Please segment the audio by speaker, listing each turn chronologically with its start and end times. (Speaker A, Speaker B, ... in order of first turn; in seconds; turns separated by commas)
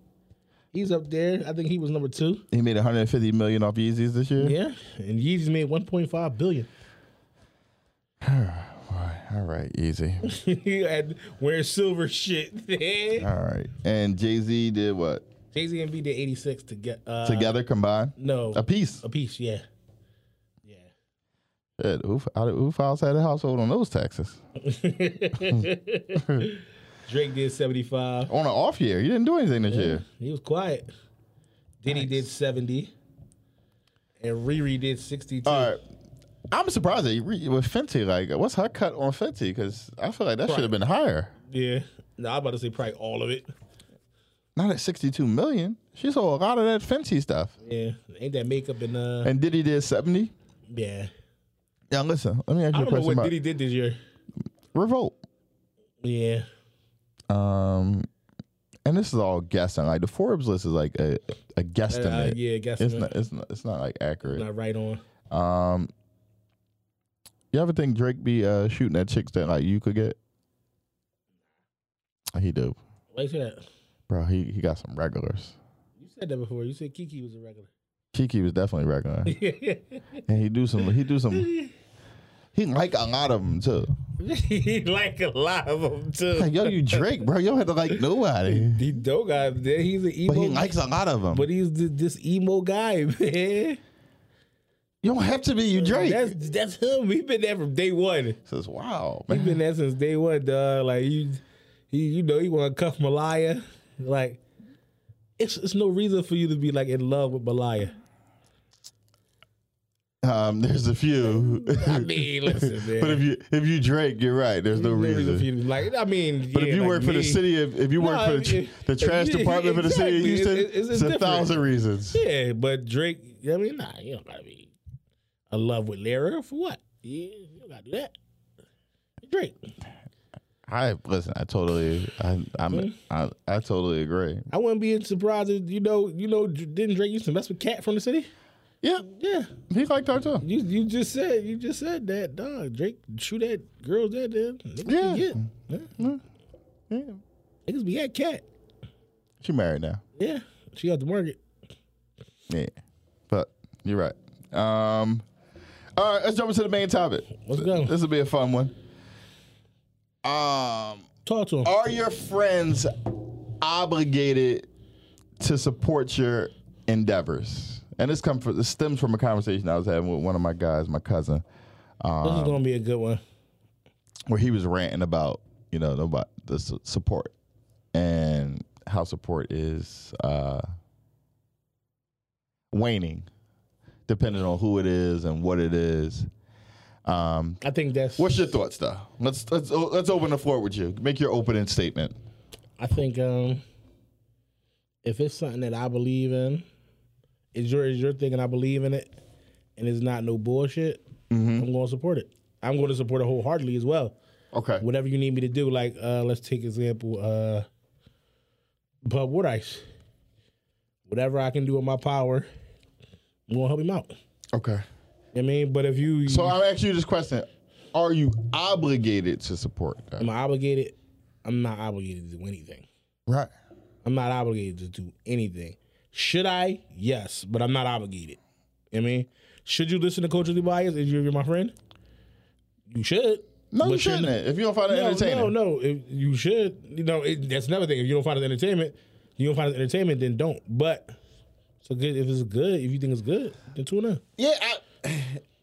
Speaker A: 0.7-2.5, Speaker B: 2.5-4.6, Speaker A: 4.4-6.7, Speaker B: 8.2-10.2, Speaker A: 10.2-13.3, Speaker B: 13.2-15.2, Speaker A: 15.5-17.6, Speaker B: 17.2-19.0, Speaker A: 18.2-19.6, Speaker B: 21.8-24.4, Speaker A: 24.6-28.3, Speaker B: 26.2-26.5, Speaker B: 28.3-30.0, Speaker A: 29.7-30.9, Speaker A: 31.8-32.9, Speaker B: 31.9-32.2, Speaker A: 34.2-35.7, Speaker B: 35.5-35.8, Speaker B: 36.5-41.3, Speaker A: 40.5-40.7, Speaker A: 41.5-43.5, Speaker B: 44.6-47.5, Speaker A: 47.6-49.3, Speaker B: 49.2-50.3, Speaker A: 50.7-51.1, Speaker B: 51.9-53.3, Speaker A: 52.7-54.0, Speaker B: 54.7-55.2, Speaker A: 56.0-56.5, Speaker B: 57.3-58.1, Speaker B: 58.9-64.5, Speaker A: 61.9-63.1, Speaker A: 64.3-65.0, Speaker B: 65.3-65.9, Speaker B: 67.5-70.2, Speaker B: 72.3-72.8, Speaker A: 73.1-73.7, Speaker B: 74.1-75.6, Speaker A: 76.0-77.7, Speaker B: 78.1-79.4, Speaker A: 79.3-80.2, Speaker B: 80.3-81.5, Speaker A: 81.3-81.7, Speaker B: 82.5-84.0, Speaker A: 84.2-87.1, Speaker B: 86.3-88.8, Speaker A: 88.5-90.8, Speaker B: 90.3-91.5, Speaker A: 91.3-93.8, Speaker B: 95.0-96.3, Speaker A: 95.8-98.4, Speaker B: 98.5-99.6, Speaker A: 99.3-104.4, Speaker A: 105.4-108.0, Speaker B: 110.2-115.5, Speaker A: 111.3-113.2, Speaker A: 114.7-117.4, Speaker B: 116.5-122.2, Speaker A: 118.0-121.6, Speaker A: 122.1-124.7, Speaker A: 125.5-128.1, Speaker A: 129.2-129.7, Speaker B: 130.7-134.5, Speaker A: 132.7-133.0, Speaker A: 134.5-138.3, Speaker A: 139.1-139.5, Speaker B: 139.7-140.4, Speaker A: 140.4-145.9, Speaker B: 144.8-146.2, Speaker B: 146.9-147.2, Speaker A: 147.7-148.4, Speaker B: 149.4-150.0, Speaker A: 150.2-151.4, Speaker B: 152.5-152.7, Speaker B: 153.3-155.2, Speaker B: 156.0-158.7, Speaker A: 157.4-157.9, Speaker B: 160.2-161.1, Speaker A: 161.2-161.7, Speaker B: 161.6-164.7, Speaker B: 165.4-171.4, Speaker B: 172.0-172.6, Speaker A: 172.2-173.2, Speaker B: 174.3-177.3, Speaker B: 177.9-180.7, Speaker B: 182.7-183.3, Speaker B: 184.1-186.3, Speaker B: 187.1-187.6, Speaker A: 187.6-188.3, Speaker B: 188.2-192.2, Speaker A: 192.8-193.6, Speaker A: 195.0-196.7, Speaker A: 197.5-199.1, Speaker A: 199.8-201.0, Speaker B: 201.3-201.7, Speaker A: 201.6-204.2, Speaker B: 204.5-204.8, Speaker A: 204.8-207.7, Speaker A: 209.1-209.8, Speaker A: 211.1-212.5, Speaker A: 213.5-214.2, Speaker B: 214.5-214.8, Speaker A: 215.3-216.6, Speaker B: 216.3-220.3, Speaker A: 220.2-222.9, Speaker A: 224.1-228.4, Speaker A: 228.9-231.8, Speaker A: 232.9-234.3, Speaker B: 233.7-235.5, Speaker A: 234.9-241.2, Speaker A: 241.8-244.2, Speaker B: 244.4-245.4